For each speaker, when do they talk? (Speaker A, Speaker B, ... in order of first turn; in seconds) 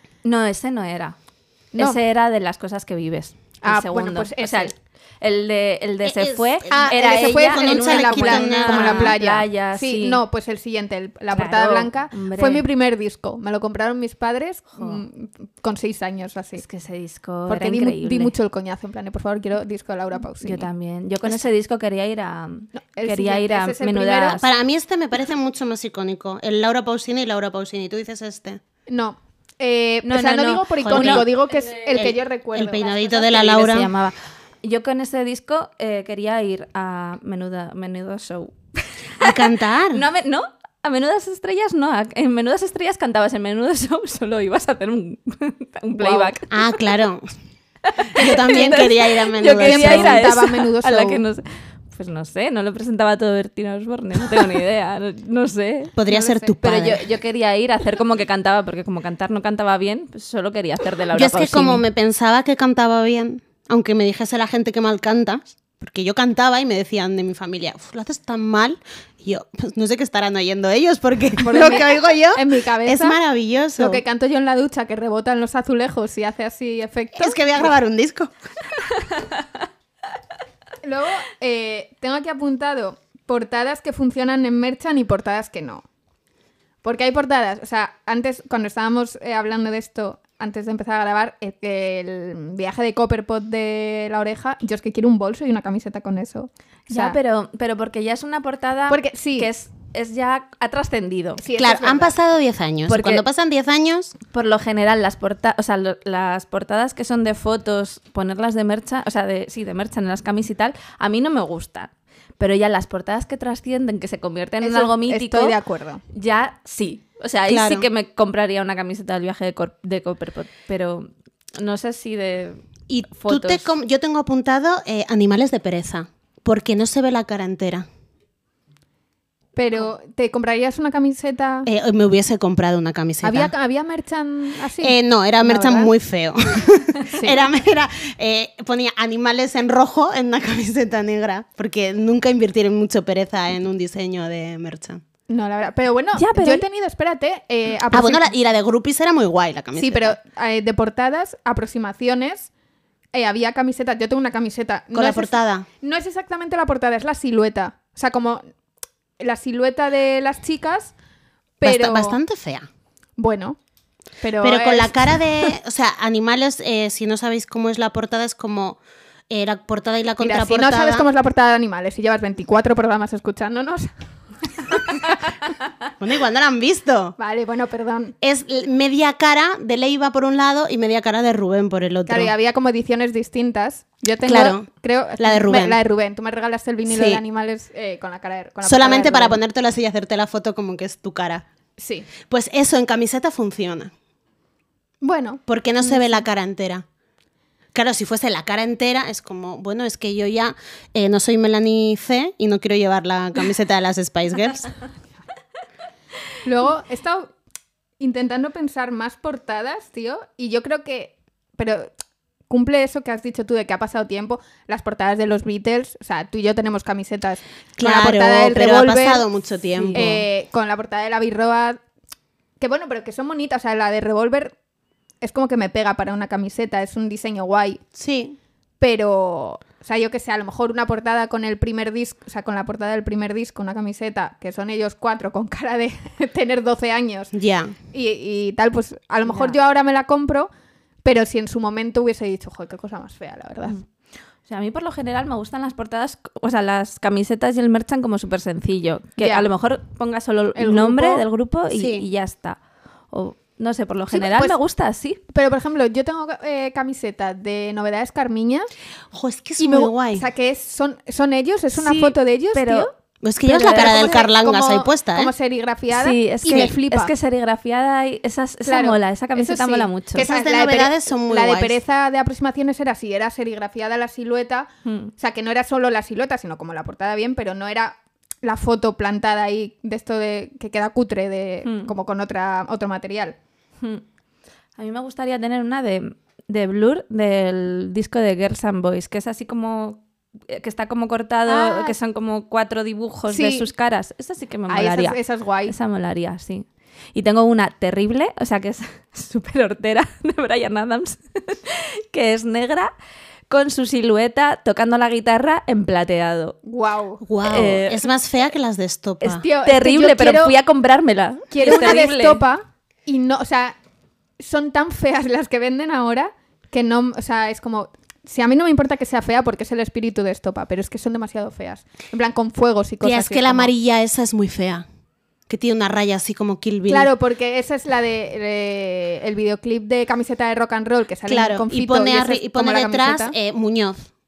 Speaker A: 0.2-1.2, 1.7-10.2, 11.3-12.6, 14.8-15.0, 16.6-18.3, 20.4-24.5, 30.0-32.0, 33.4-46.5, 47.9-56.0, 56.6-61.8, 79.0-79.5, 96.9-101.4, 102.9-103.2, 104.3-115.5, 116.1-123.7, 146.2-146.6, 219.8-220.1, 239.3-239.6, 244.4-252.6, 253.1-255.2, 261.8-262.9, 263.4-264.2, 265.9-270.3, 274.8-275.1, 281.6-281.9, 284.8-302.9, 303.5-306.6, 307.4-308.0, 309.3-312.4
Speaker B: 3.6-4.7, 6.7-16.6, 17.5-20.7, 22.7-24.4, 28.9-33.8, 46.0-46.3, 48.2-48.9, 49.6-51.2, 56.1-56.5, 71.4-73.2, 73.8-77.7, 80.8-85.8, 86.8-97.2, 98.9-99.5, 101.4-102.1, 114.6-116.0, 129.6-131.7, 133.2-135.9, 137.1-137.4, 145.3-148.3, 149.7-152.5, 153.1-158.4, 159.2-160.9, 161.6-162.2, 163.2-163.6, 164.2-165.5, 170.2-173.9, 174.4-175.2, 177.2-178.1, 182.1-189.4, 191.8-192.1, 195.0-196.2, 206.4-207.3, 208.0-211.9, 212.5-219.2, 219.9-221.8, 222.6-224.5, 225.2-227.8, 228.8-237.3, 237.9-240.5, 241.0-243.8, 249.2-249.5, 250.6-251.2, 254.1-254.6, 255.3-258.7, 259.6-262.9, 263.5-267.1, 268.6-283.4, 291.5-291.9, 293.3-293.7, 294.7-295.7, 306.6-307.2, 309.2-310.5, 311.5-313.8, 314.4-323.7, 326.9-333.3
Speaker C: 6.0-9.2, 24.4-28.6, 30.8-31.3, 31.9-33.9, 39.2-40.0, 46.5-47.3, 48.1-50.3, 56.0-57.0, 61.1-74.0, 77.2-78.3, 101.6-104.1, 117.5-117.9, 122.9-127.8, 131.7-133.5, 134.8-145.0, 147.9-150.2, 154.9-155.7, 161.6-162.7, 164.4-171.1, 176.0-177.1, 178.2-182.3, 184.2-184.7, 185.2-185.8, 186.9-187.2, 188.6-191.4, 192.2-193.9, 195.5-196.8, 197.7-204.7, 217.8-220.2, 227.9-228.4, 237.3-237.7, 251.7-252.0, 259.1-260.2, 263.2-265.3, 270.2-271.8, 307.2-309.4, 323.0-324.8, 325.5-327.1, 331.3-334.1